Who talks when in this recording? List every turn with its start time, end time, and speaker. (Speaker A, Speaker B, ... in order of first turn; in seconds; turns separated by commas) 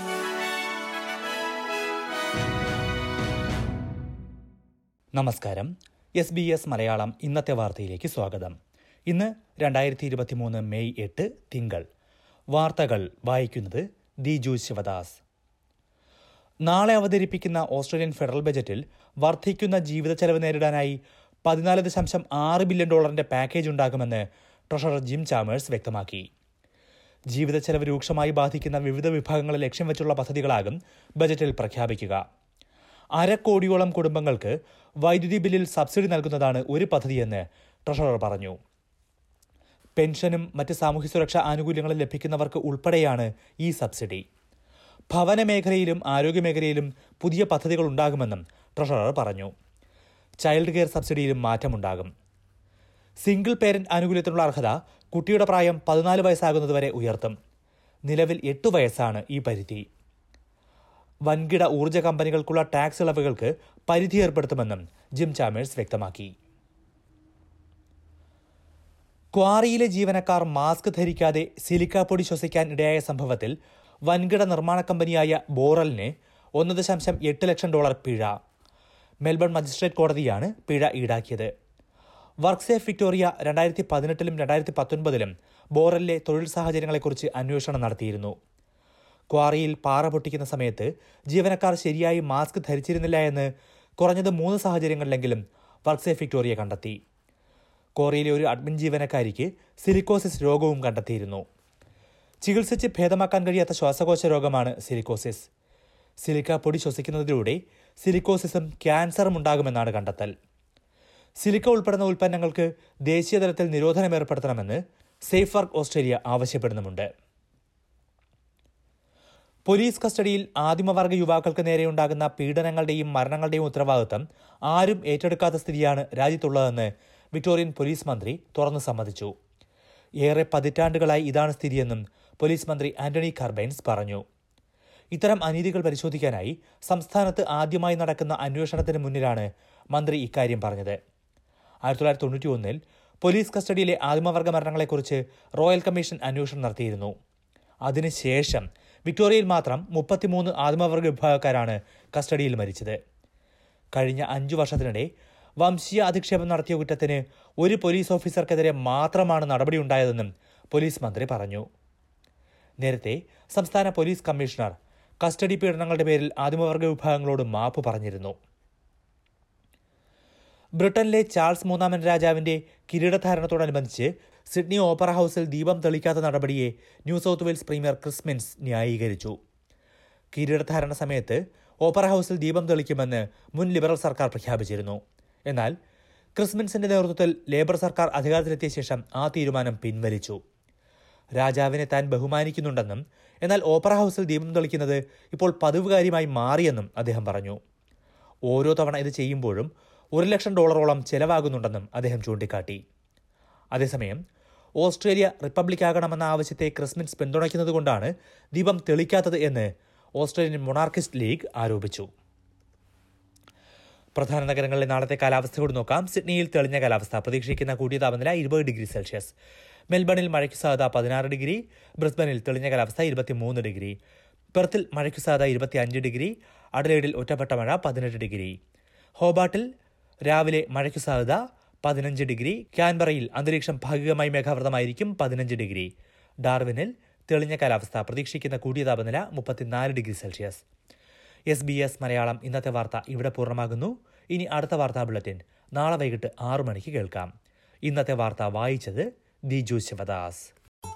Speaker A: 5.1-8.5, Speaker A: 9.1-11.8, Speaker A: 12.5-15.2, Speaker A: 16.6-26.2, Speaker A: 27.3-32.2, Speaker A: 33.2-38.6, Speaker A: 40.0-44.2, Speaker A: 45.1-49.5, Speaker A: 50.4-52.1, Speaker A: 53.2-57.3, Speaker A: 58.1-59.8, Speaker A: 61.3-66.3, Speaker A: 69.3-73.5, Speaker A: 74.1-78.3, Speaker A: 79.2-81.5, Speaker A: 82.4-88.3, Speaker A: 89.3-93.5, Speaker A: 94.0-97.0, Speaker A: 98.0-101.4, Speaker A: 102.4-105.5, Speaker A: 106.2-110.3, Speaker A: 111.4-117.1, Speaker A: 119.7-129.3, Speaker A: 130.2-134.2, Speaker A: 135.1-141.0, Speaker A: 141.8-147.1, Speaker A: 147.8-153.0, Speaker A: 153.9-155.1, Speaker A: 155.6-161.6, Speaker A: 162.8-168.3, Speaker A: 170.8-179.3, Speaker A: 180.3-185.7, Speaker A: 186.3-190.4, Speaker A: 191.4-197.6, Speaker A: 198.5-202.8, Speaker A: 203.7-204.2, Speaker A: 204.8-212.1, Speaker A: 214.2-219.3, Speaker A: 219.9-223.9, Speaker A: 224.5-228.6, Speaker A: 229.2-229.7, Speaker A: 230.3-235.9, Speaker A: 236.4-240.6, Speaker A: 241.5-247.3, Speaker A: 247.8-250.5